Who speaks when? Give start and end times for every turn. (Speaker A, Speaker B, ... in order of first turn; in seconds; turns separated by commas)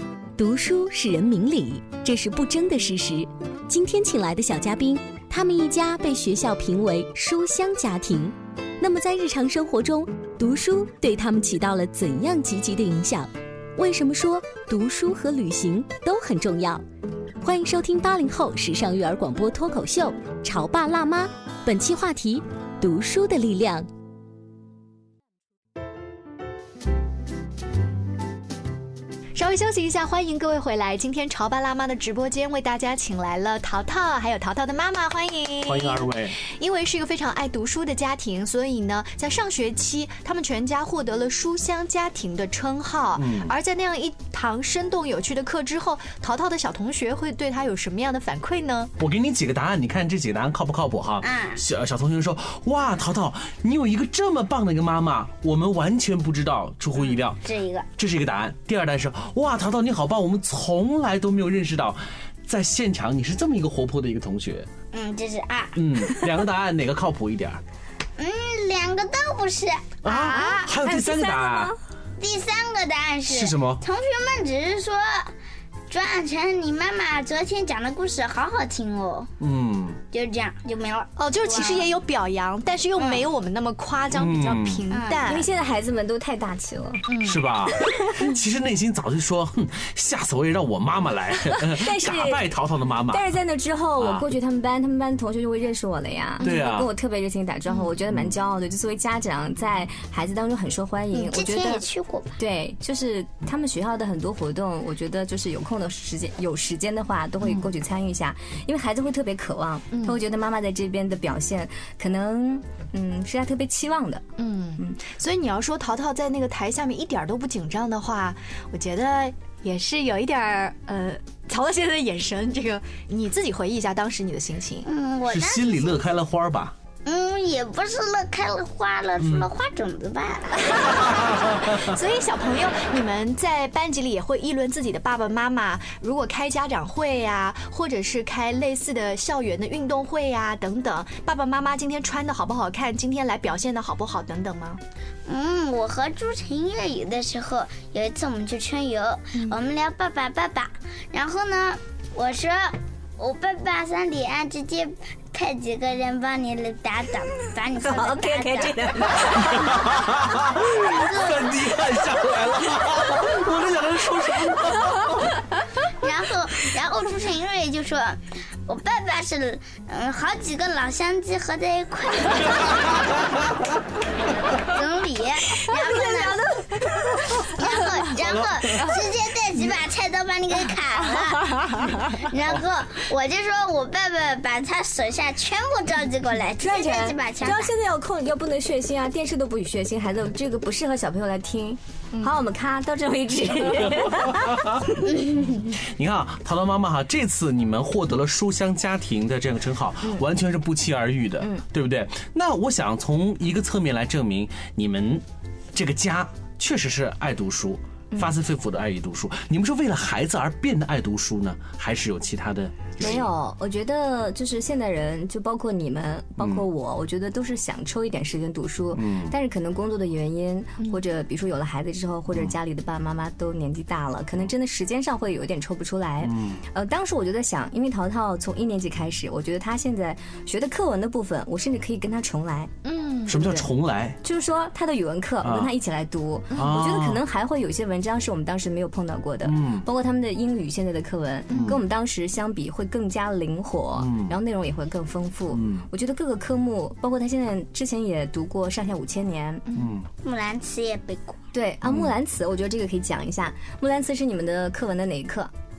Speaker A: 0.4-16.8, Speaker A: 17.4-23.9, Speaker B: 29.3-48.9, Speaker C: 35.6-36.4, Speaker C: 43.1-43.5, Speaker C: 49.0-57.4, Speaker D: 51.2-51.6, Speaker D: 57.4-57.9, Speaker C: 58.0-64.7, Speaker D: 64.9-65.8, Speaker C: 65.8-67.6, Speaker D: 68.2-69.8, Speaker C: 70.0-71.7, Speaker E: 70.1-71.8, Speaker D: 72.2-75.3, Speaker C: 73.3-73.8, Speaker D: 75.9-79.3, Speaker C: 79.4-80.0, Speaker D: 80.1-81.9, Speaker B: 81.2-85.5, Speaker D: 83.0-83.2, Speaker C: 84.1-84.9, Speaker D: 84.9-85.2, Speaker E: 85.2-87.1, Speaker B: 87.1-87.4, Speaker C: 87.2-93.2, Speaker E: 91.7-92.4, Speaker E: 93.1-101.8, Speaker C: 94.0-94.2, Speaker B: 96.4-96.7, Speaker C: 96.4-96.9, Speaker D: 101.1-102.4, Speaker E: 102.4-114.2, Speaker B: 109.9-110.2, Speaker B: 114.4-124.8, Speaker D: 124.8-126.0, Speaker C: 125.2-126.7, Speaker D: 127.0-130.8, Speaker C: 129.2-129.5, Speaker B: 130.5-144.8, Speaker C: 131.0-131.9, Speaker D: 145.3-159.3, Speaker E: 157.8-159.9, Speaker C: 159.3-165.3, Speaker D: 160.6-161.5, Speaker D: 166.0-173.4, Speaker D: 174.6-176.4, Speaker D: 177.4-187.7, Speaker C: 178.2-178.8, Speaker E: 186.6-194.5, Speaker C: 194.0-213.3, Speaker E: 201.4-201.6, Speaker E: 213.0-232.7, Speaker C: 216.4-216.6, Speaker C: 218.9-219.3, Speaker C: 226.2-226.6, Speaker B: 232.8-233.3, Speaker E: 233.2-233.7, Speaker C: 233.2-234.2, Speaker E: 234.2-249.7, Speaker C: 235.4-235.7, Speaker C: 236.5-237.2, Speaker C: 239.4-239.9, Speaker B: 241.5-241.8, Speaker C: 241.5-241.8, Speaker C: 244.0-244.3, Speaker C: 245.5-245.8, Speaker C: 249.7-250.1, Speaker D: 250.2-251.4, Speaker E: 251.5-255.5, Speaker C: 251.8-252.1